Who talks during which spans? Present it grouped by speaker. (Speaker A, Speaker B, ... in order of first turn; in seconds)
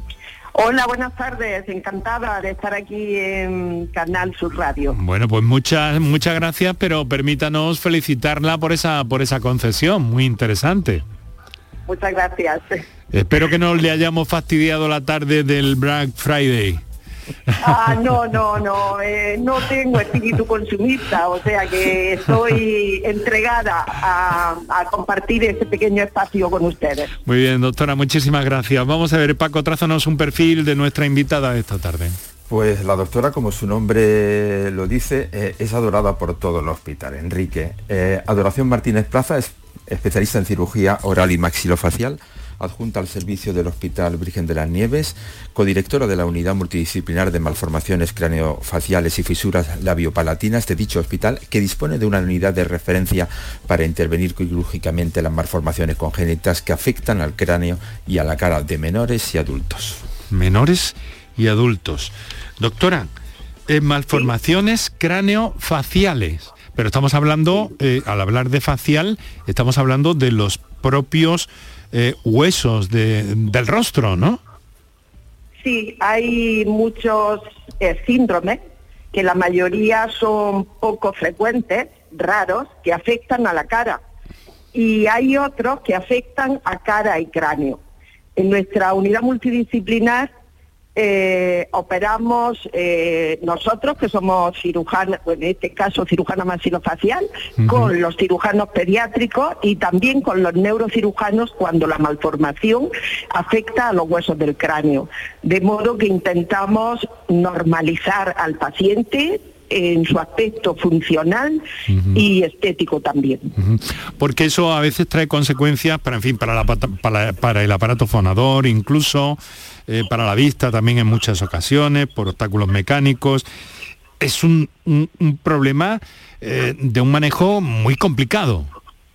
Speaker A: 0.5-5.0, 11.9-12.8, 17.6-27.1, 75.6-78.6, 79.1-84.0, 84.7-87.8, 88.4-90.3, 91.0-113.5
Speaker B: 4.9-11.0, 13.1-16.8, 27.3-32.2, 60.3-63.1, 63.7-74.4, 97.6-97.9, 111.9-112.2, 113.6-123.5, 124.2-128.7
Speaker C: 32.5-60.0